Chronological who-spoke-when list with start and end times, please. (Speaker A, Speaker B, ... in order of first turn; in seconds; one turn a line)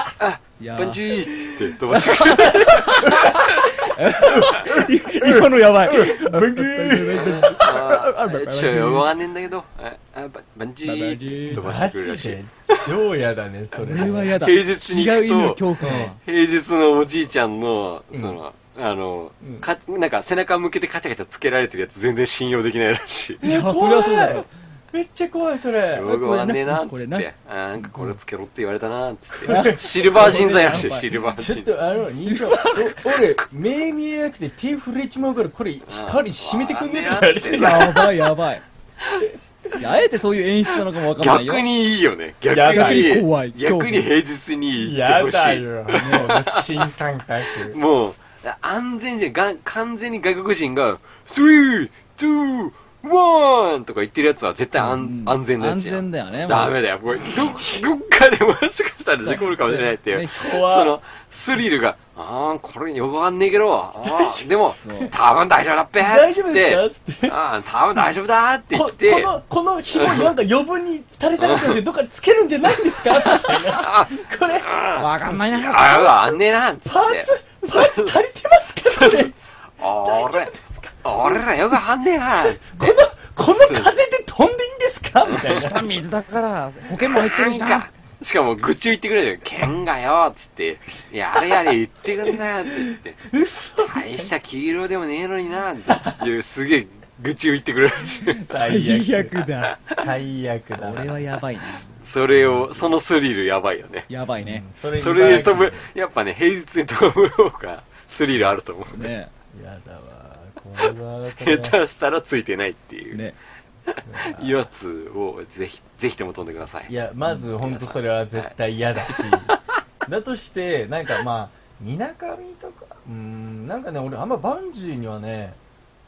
Speaker A: 0.2-4.6
Speaker B: 0.6-1.4
Speaker B: 1.9-9.2
Speaker C: 3.0-3.3
Speaker C: 4.2-7.8
Speaker A: 7.2-12.9
Speaker B: 10.8-11.8
Speaker C: 11.5-14.4
Speaker B: 13.8-16.2
Speaker A: 14.1-23.4
Speaker C: 15.8-16.1
Speaker C: 18.1-18.4
Speaker B: 23.4-24.5
Speaker C: 23.4-26.6
Speaker A: 25.9-31.8
Speaker B: 26.3-27.3
Speaker B: 27.8-28.1
Speaker C: 29.3-38.1
Speaker B: 29.5-31.2
Speaker B: 32.1-33.3
Speaker A: 35.9-38.1
Speaker B: 37.5-38.6
Speaker A: 39.0-39.3
Speaker B: 39.7-41.7
Speaker A: 40.7-46.9
Speaker C: 42.5-43.2
Speaker B: 42.5-44.1
Speaker C: 44.8-47.8
Speaker B: 46.0-46.4
Speaker A: 47.6-69.3
Speaker B: 55.0-56.8
Speaker C: 57.2-57.8
Speaker B: 59.2-60.5
Speaker C: 60.3-61.0
Speaker C: 64.0-65.1
Speaker B: 64.8-65.1
Speaker C: 66.0-67.4
Speaker C: 68.7-74.8
Speaker A: 69.9-70.3
Speaker A: 71.4-71.8
Speaker A: 73.0-78.2
Speaker B: 75.0-76.4
Speaker C: 76.8-81.8
Speaker A: 78.9-83.0
Speaker C: 82.4-86.0
Speaker A: 83.5-84.0
Speaker A: 85.2-85.7
Speaker B: 85.4-87.9
Speaker A: 87.0-93.2
Speaker C: 92.2-94.3
Speaker A: 93.8-98.5
Speaker C: 95.9-96.2
Speaker B: 98.2-100.1
Speaker C: 98.4-102.9
Speaker B: 100.7-101.9
Speaker A: 102.0-104.1
Speaker B: 104.1-105.5
Speaker C: 104.4-105.9
Speaker A: 105.0-109.1
Speaker B: 108.9-109.3
Speaker C: 109.5-111.8
Speaker A: 110.8-113.2
Speaker B: 113.1-113.4
Speaker A: 113.9-116.9
Speaker C: 114.0-114.6
Speaker C: 116.9-125.6
Speaker A: 117.5-119.6